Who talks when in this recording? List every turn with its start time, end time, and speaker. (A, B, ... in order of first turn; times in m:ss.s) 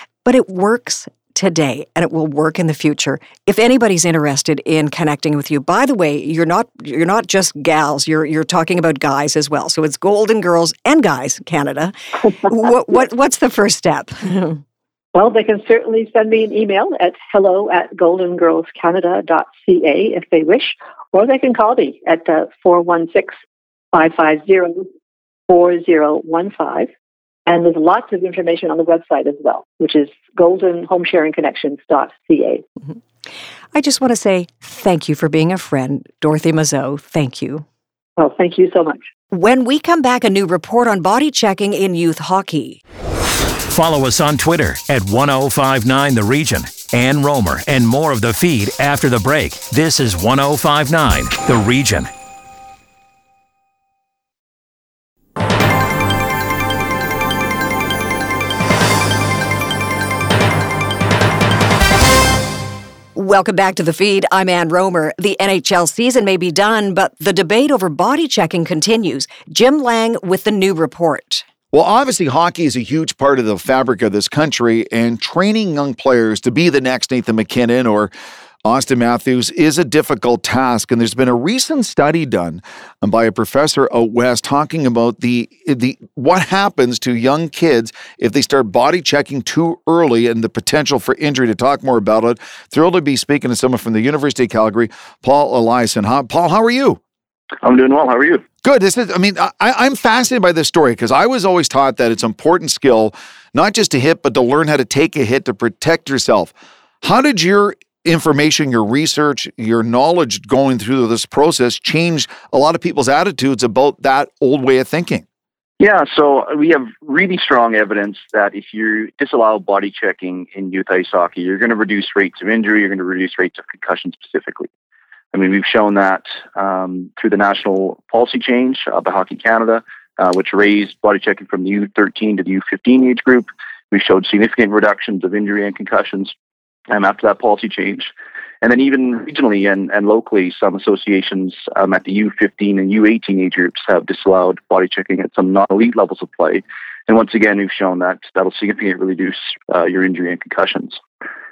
0:00.2-0:14.6 A
0:15.1-0:23.3 B
0:23.9-0:24.9 B
0:25.5-0:26.9 B
0:27.5-0:32.6 B
0:33.7-0:37.6 A
0:38.2-0:39.0 B
0:39.3-0:42.8 A
0:43.6-0:52.1 C
1:03.1-1:11.4 A
1:11.7-1:18.1 D
1:18.6-1:37.0 D
1:37.6-1:38.4 E
1:38.6-1:55.2 D
1:55.8-2:04.7 E
2:05.3-2:16.3 E
2:16.9-2:18.1 E
2:18.6-2:31.0 E